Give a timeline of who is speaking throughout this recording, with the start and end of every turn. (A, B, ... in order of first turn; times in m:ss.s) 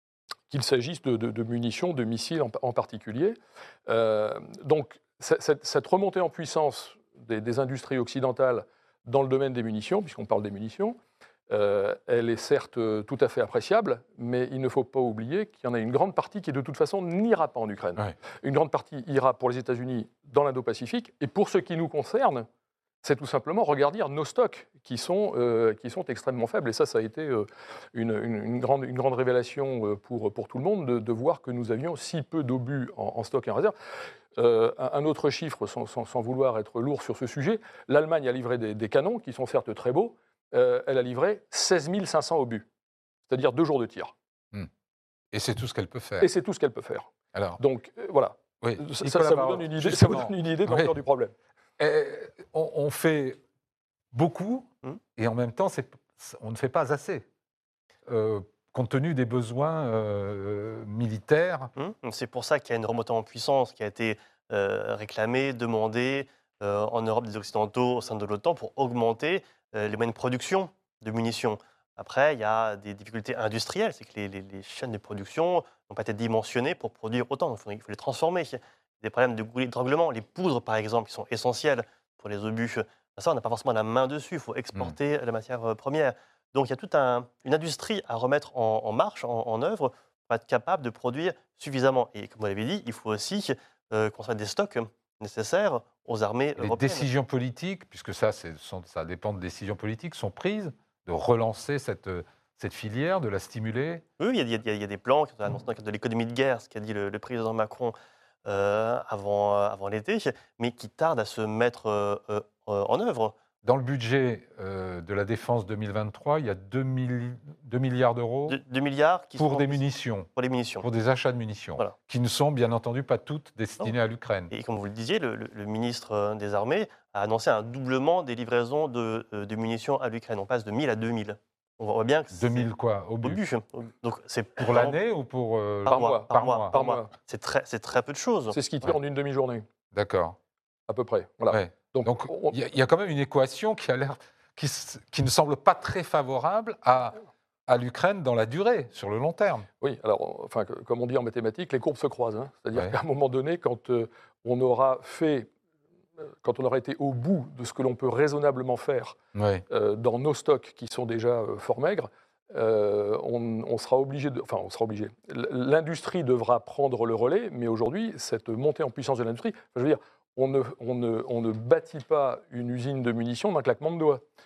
0:00.5-0:11.0 A
0:11.5-0:22.5 A
0:23.0-0:33.7 A
0:34.4-0:42.7 A
0:43.3-0:44.1 A
0:45.3-0:46.3 B
0:46.2-0:51.4 A
0:47.3-0:47.6 B
0:48.6-0:51.0 B
0:51.8-0:53.4 B
0:54.1-0:57.2 B
0:58.1-1:01.7 B
1:01.8-1:37.1 C
1:36.6-1:44.0 B
1:44.2-1:53.4 C
1:53.6-1:58.6 B
1:58.5-1:59.8 C
1:59.4-2:00.3 B
2:00.4-2:00.9 C
2:00.8-2:04.5 B
2:04.5-2:12.7 C
2:12.3-2:13.5 B
2:13.2-2:15.0 C
2:14.6-2:16.8 B
2:15.9-2:18.6 C
2:15.9-2:17.1 A
2:18.5-2:19.7 A
2:19.9-2:20.4 B
2:20.9-2:22.6 A
2:21.5-2:29.7 B
2:29.8-2:35.5 A
2:36.2-2:39.2 A
2:39.4-2:39.6 B
2:39.7-2:54.2 A